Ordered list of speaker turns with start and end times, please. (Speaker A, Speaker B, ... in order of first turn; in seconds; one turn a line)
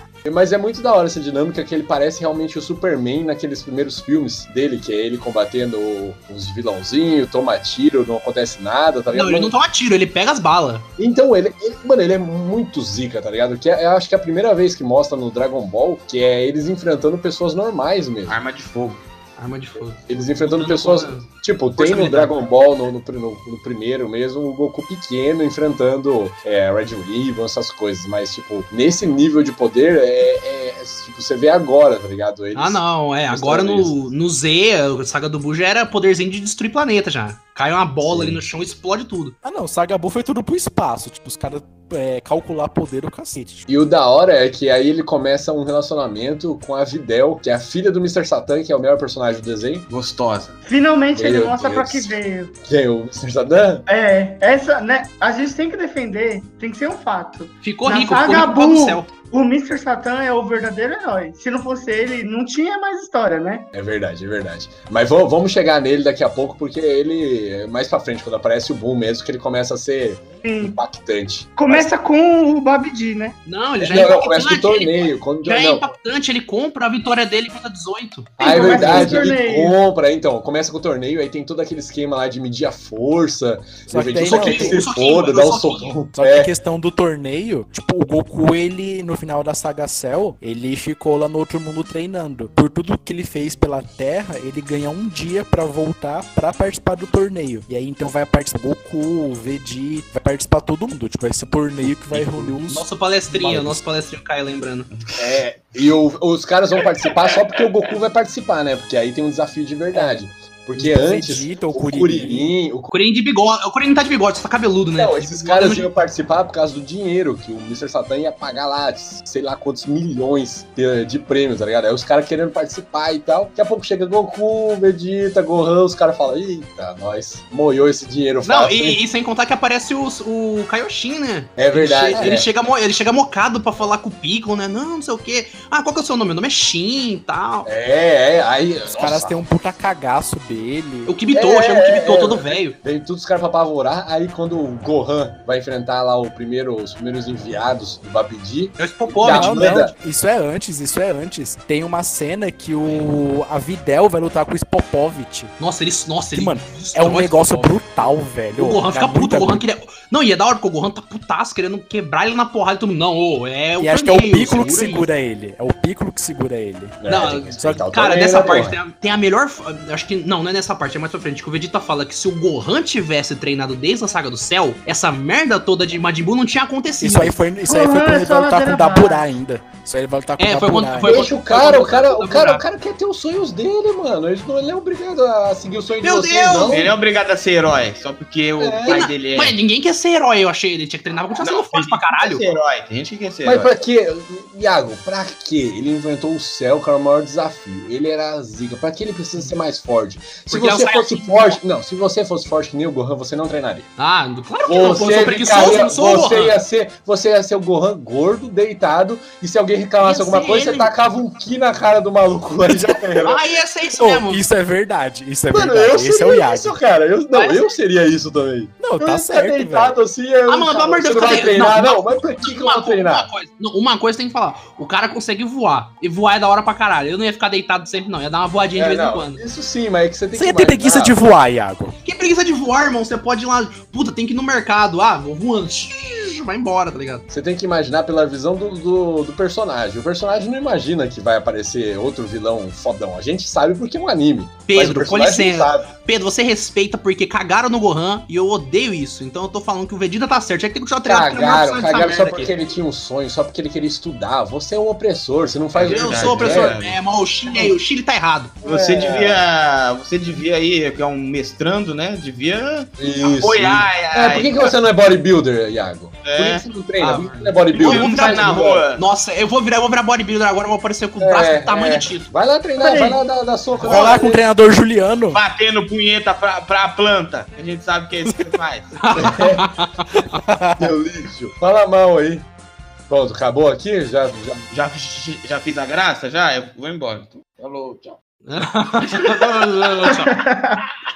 Speaker A: 0.2-9.5
Speaker B: 9.1-10.9
Speaker A: 11.0-18.4
Speaker C: 18.3-19.0
Speaker B: 19.4-22.5
Speaker A: 20.1-34.0
Speaker B: 32.5-39.4
Speaker A: 38.0-38.4
Speaker D: 39.4-43.6
Speaker A: 43.7-49.9
Speaker C: 49.9-50.5
Speaker E: 50.6-52.5
Speaker A: 51.1-53.8
Speaker E: 53.9-63.7
Speaker B: 57.6-59.1
Speaker A: 63.7-71.9
Speaker E: 70.4-70.8
Speaker E: 71.5-73.4
Speaker B: 73.5-78.8
Speaker A: 73.8-75.8
Speaker E: 78.4-79.8
Speaker A: 78.4-86.5
Speaker D: 83.9-84.8
Speaker B: 84.2-85.9
Speaker D: 86.1-103.8
Speaker B: 102.1-104.9
Speaker C: 104.9-105.2
Speaker A: 105.2-112.9
Speaker D: 109.9-110.2
Speaker D: 110.7-112.5
Speaker B: 112.9-115.9
Speaker A: 115.0-129.0
Speaker B: 128.4-137.7
Speaker A: 131.6-132.5
Speaker A: 137.6-139.4
Speaker D: 138.9-141.1
Speaker B: 141.1-142.8
Speaker A: 141.3-149.9
Speaker B: 148.8-149.7
Speaker D: 149.2-155.5
Speaker B: 155.6-157.8
Speaker D: 156.3-159.6
Speaker B: 158.5-165.1
Speaker D: 163.8-167.0
Speaker A: 167.0-168.8
Speaker B: 167.1-177.4
Speaker D: 167.6-167.8
Speaker D: 177.0-181.2
Speaker E: 177.7-179.2
Speaker B: 180.4-182.6
Speaker A: 181.0-186.9
Speaker B: 186.0-186.9
Speaker C: 186.7-189.5
Speaker A: 188.6-189.1
Speaker B: 188.9-192.4
Speaker C: 191.4-193.7
Speaker A: 193.4-203.9
Speaker B: 200.5-201.6
Speaker B: 204.0-206.6
Speaker A: 204.7-213.4
Speaker B: 210.0-210.9
Speaker B: 213.2-214.4
Speaker D: 213.9-216.8
Speaker A: 215.5-223.3
Speaker B: 217.3-217.6
Speaker D: 218.8-219.9
Speaker B: 220.5-229.4
Speaker A: 228.7-231.2
Speaker D: 230.3-231.9
Speaker B: 232.0-237.2
Speaker A: 237.3-245.9
Speaker B: 244.7-252.5
Speaker A: 251.1-256.8
Speaker B: 255.8-258.6
Speaker C: 255.9-256.9
Speaker A: 258.6-259.4
Speaker C: 258.7-262.8
Speaker A: 263.0-268.9
Speaker C: 263.4-264.5
Speaker C: 266.3-266.6
Speaker B: 267.0-272.3
Speaker C: 267.9-268.9
Speaker A: 271.2-274.4
Speaker E: 272.8-273.2
Speaker D: 273.8-275.4
Speaker C: 275.3-278.9
Speaker B: 279.0-279.9
Speaker A: 279.1-279.7
Speaker D: 280.4-280.9
Speaker A: 280.8-282.5
Speaker A: 283.1-284.6
Speaker C: 284.7-288.1
Speaker B: 288.4-290.3
Speaker E: 290.0-290.8